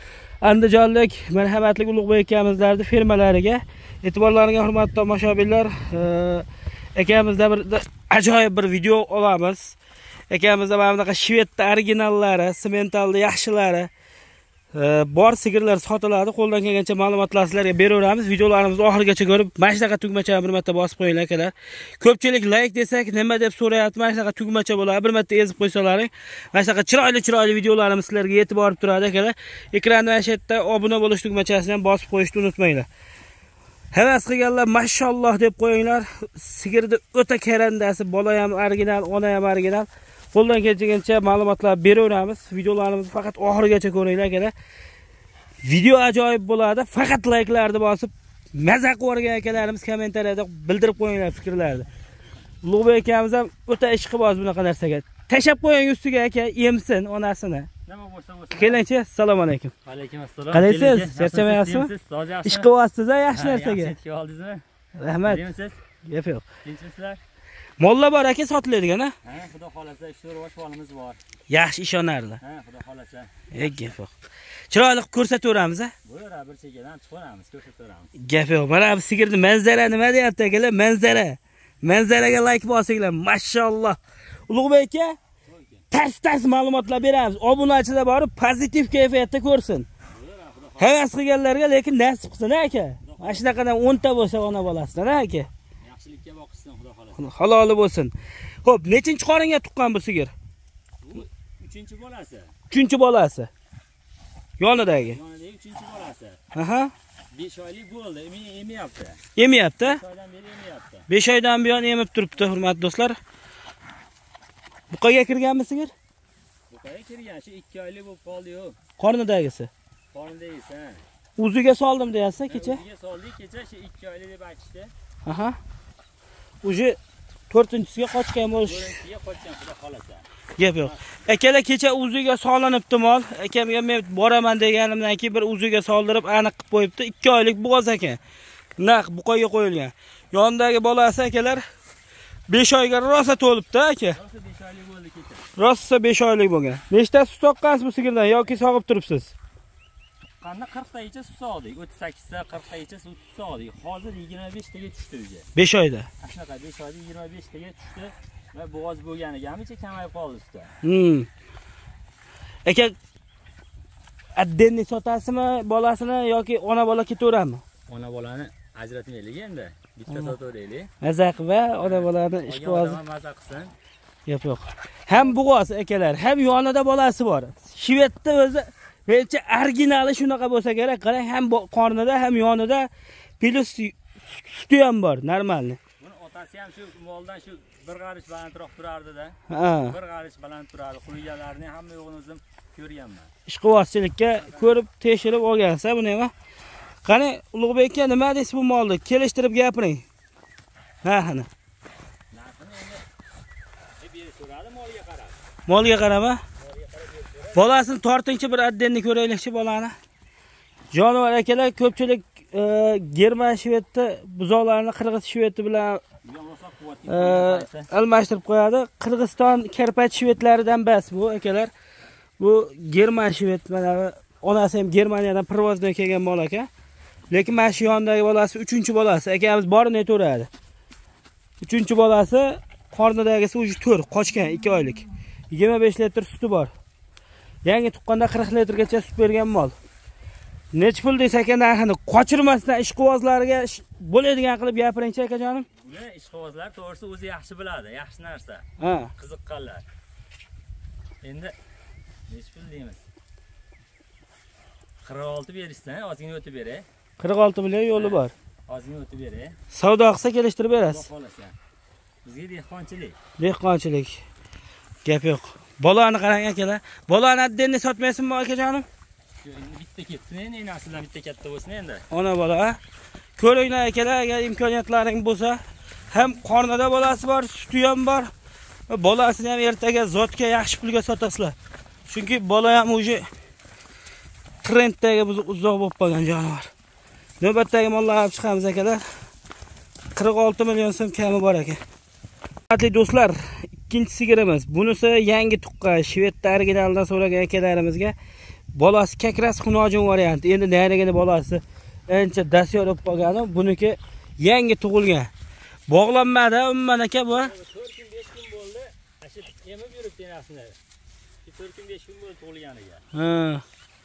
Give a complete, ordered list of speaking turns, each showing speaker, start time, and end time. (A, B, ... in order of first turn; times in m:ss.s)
0:00.4-0:09.8 A
0:10.3-0:13.9 A
0:14.7-0:32.9 A
0:33.9-0:44.5 A
0:45.6-0:51.9 A
0:52.6-0:57.7 A
0:57.9-0:58.8 B
0:58.5-0:59.7 A
0:59.8-1:02.7 B
1:00.5-1:01.9 A
1:02.4-1:04.0 A
1:03.3-1:04.6 B
1:05.0-1:05.4 A
1:05.2-1:05.8 B
1:06.1-1:06.4 A
1:06.6-1:07.2 B
1:07.8-1:09.1 A
1:09.2-1:11.2 B
1:11.5-1:12.4 A
1:12.4-1:13.8 B
1:13.5-1:14.1 A
1:14.7-1:15.9 A
1:16.0-1:18.1 B
1:18.2-1:25.2 A
1:25.4-1:25.8 B
1:25.9-1:29.9 A
1:30.1-1:31.0 B
1:30.8-1:35.5 A
1:33.0-1:33.6 B
1:35.8-1:37.3 B
1:37.2-1:38.1 A
1:38.6-1:40.3 A
1:41.0-1:42.5 B
1:42.7-1:43.5 A
1:44.6-1:45.2 A
1:44.9-1:46.4 B
1:46.5-1:46.9 A
1:47.3-1:49.2 B
1:49.4-1:50.0 A
1:49.8-1:51.1 B
1:51.1-1:53.2 A
1:54.9-1:55.9 A
1:56.7-1:58.8 B
1:59.0-1:59.7 A
2:00.1-2:01.0 B
2:01.4-2:02.8 A
2:02.4-2:04.9 B
2:05.2-2:05.6 A
2:06.6-2:07.0 A
2:07.5-2:09.0 A
2:08.6-2:10.3 B
2:10.6-2:18.2 A
2:10.8-2:11.2 B
2:18.8-2:21.6 A
2:22.5-2:24.2 A
2:24.1-2:25.5 B
2:25.6-2:29.3 A
2:30.4-2:35.5 B
2:35.6-2:36.1 A
2:36.2-2:40.7 B
2:40.8-2:41.3 A
2:42.7-2:42.9 A
2:44.4-2:47.6 A
2:47.9-2:50.9 B
2:51.0-2:53.0 A
2:51.8-2:53.7 B
2:54.3-3:02.9 A
2:55.1-2:55.4 B
3:03.4-3:05.8 A
3:06.0-3:13.3 B
3:09.5-3:10.0 A
3:13.5-3:16.3 A
3:14.3-3:14.8 B
3:17.0-3:20.0 A
3:21.0-3:21.5 A
3:22.3-3:23.0 B
3:24.0-3:25.4 B
3:25.7-3:26.4 A
3:26.6-3:27.7 B
3:27.6-3:29.9 A
3:30.9-3:36.0 A
3:36.2-3:37.9 B
3:37.1-3:41.7 A
3:42.4-3:46.7 A
3:47.3-3:50.5 A
3:51.6-3:56.7 A
3:57.6-3:59.7 A
4:00.7-4:05.7 A
4:05.8-4:08.7 B
4:08.8-4:09.1 A
4:09.2-4:09.8 B
4:11.2-4:11.5 B
4:12.3-4:13.0 B
4:15.0-4:16.9 B
4:17.2-4:18.3 A
4:17.9-4:19.6 B
4:19.7-4:21.1 A
4:20.8-4:21.6 B
4:22.2-4:23.2 B
4:23.4-4:24.2 A
4:25.0-4:28.9 A
4:29.4-4:32.0 B
4:32.1-4:32.8 A
4:33.4-4:35.6 A
4:36.1-4:38.3 A
4:38.9-4:41.5 A
4:42.1-4:43.3 A
4:44.6-4:46.7 A
4:47.4-4:49.0 A
4:50.2-4:51.8 A
4:52.7-4:58.2 A
4:58.8-5:05.3 A
5:05.9-5:07.5 A
5:07.3-5:10.8 B
5:11.4-5:13.0 B
5:13.1-5:13.6 A